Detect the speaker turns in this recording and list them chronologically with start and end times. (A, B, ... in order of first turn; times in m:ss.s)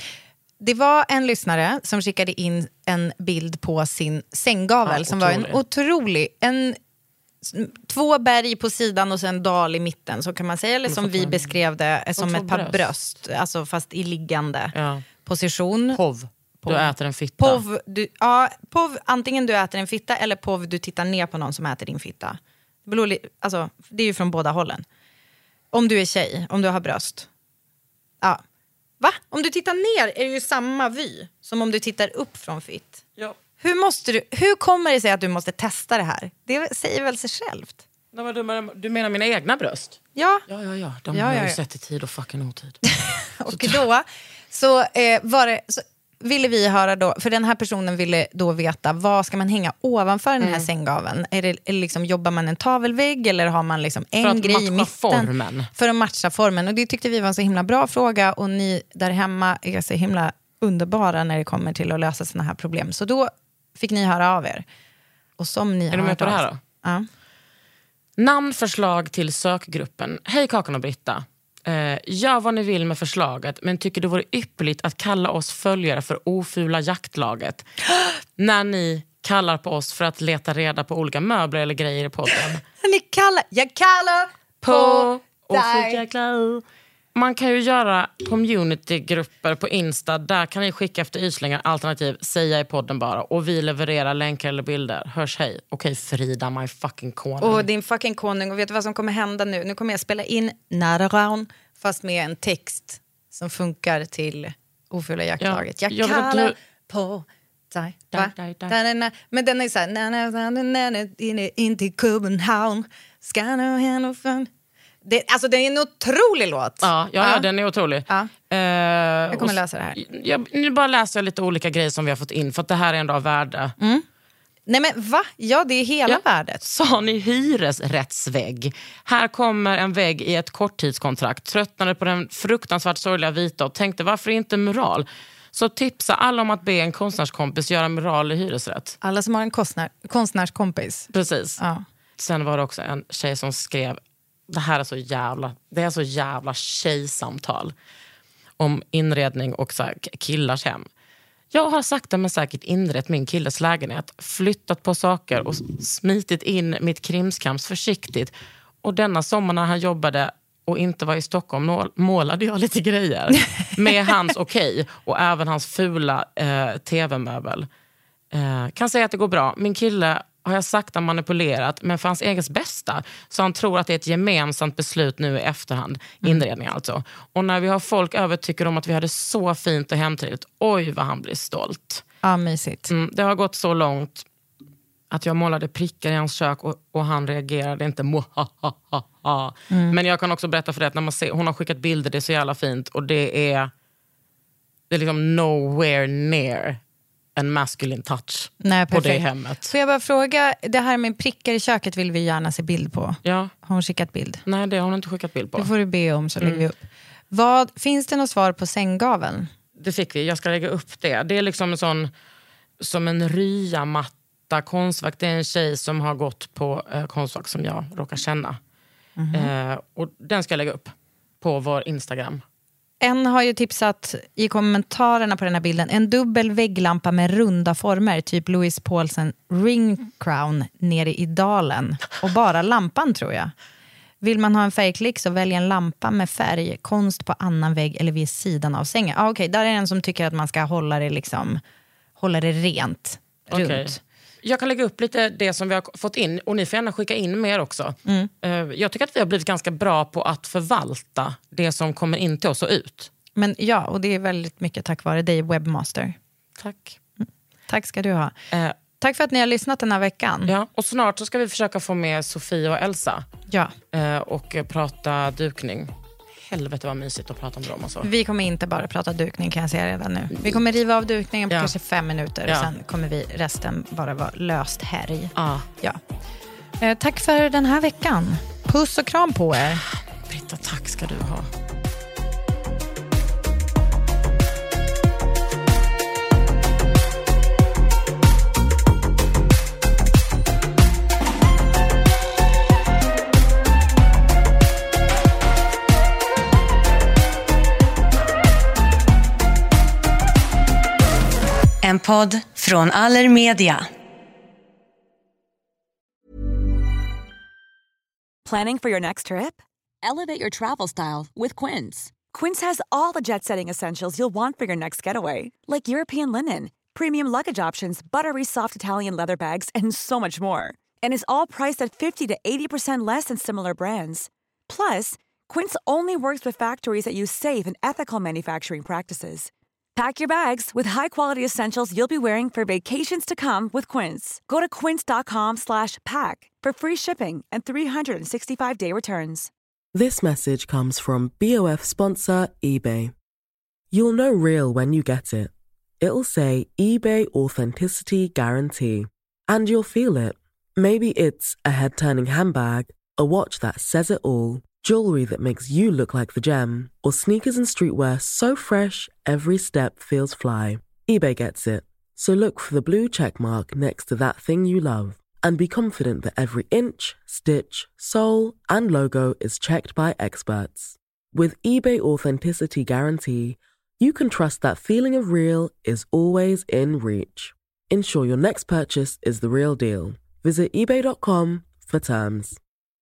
0:00.6-0:06.8 A
0:04.8-0:05.6 B
0:07.4-0:14.7 A
0:10.9-0:11.6 B
0:12.2-0:12.9 B
0:14.7-0:15.0 B
0:15.2-0:16.0 A
0:15.9-0:17.6 B
0:16.6-0:24.8 A
0:25.7-0:27.3 A
0:29.0-0:33.0 A
0:33.6-0:37.8 A
0:38.1-0:42.8 B
0:40.2-0:40.4 A
0:41.1-0:41.6 A
0:43.0-1:04.6 A
0:43.5-0:43.8 B
0:50.4-0:50.7 B
0:54.2-0:55.7 B
1:05.4-1:07.1 A
1:05.9-1:06.6 B
1:08.2-1:17.7 B
1:18.4-1:22.6 B
1:22.8-1:26.0 A
1:24.6-1:37.7 B
1:37.4-1:54.5 A
1:45.4-1:46.6 B
1:48.1-1:48.8 B
1:55.0-1:57.5 A
1:56.8-2:03.8 B
1:59.3-2:00.0 A
2:03.8-2:04.0 A
2:04.7-2:06.6 A
2:06.1-2:19.0 B
2:19.0-2:21.8 A
2:21.1-2:21.6 B
2:22.2-2:27.7 B
2:28.6-2:30.9 B
2:31.5-2:47.7 B
2:48.3-3:02.0 B
3:02.2-3:02.9 A
3:02.9-3:04.3 B
3:05.1-3:13.7 B
3:09.7-3:10.0 A
3:14.9-3:16.8 B
3:17.4-3:19.7 B
3:18.6-3:24.4 A
3:23.2-3:23.5 B
3:24.5-3:25.7 B
3:25.6-3:29.5 A
3:26.4-3:26.7 B
3:29.8-3:32.1 B
3:32.8-3:38.6 B
3:39.2-3:39.5 A
3:39.3-3:42.4 B
3:43.0-3:53.5 A
3:54.2-4:01.6 A
4:02.2-4:04.0 A
4:03.5-4:13.1 B
4:13.4-4:16.2 A
4:16.6-4:17.0 B
4:17.2-4:18.3 A
4:19.0-4:20.5 A
4:20.5-4:23.3 B
4:23.9-4:28.1 B
4:28.0-4:36.0 A
4:35.4-4:35.7 B
4:36.8-4:39.8 A
4:40.3-4:41.5 B
5:01.8-5:03.9 C
5:08.4-5:39.5 D
5:39.9-5:43.1 E
5:43.9-6:22.6 E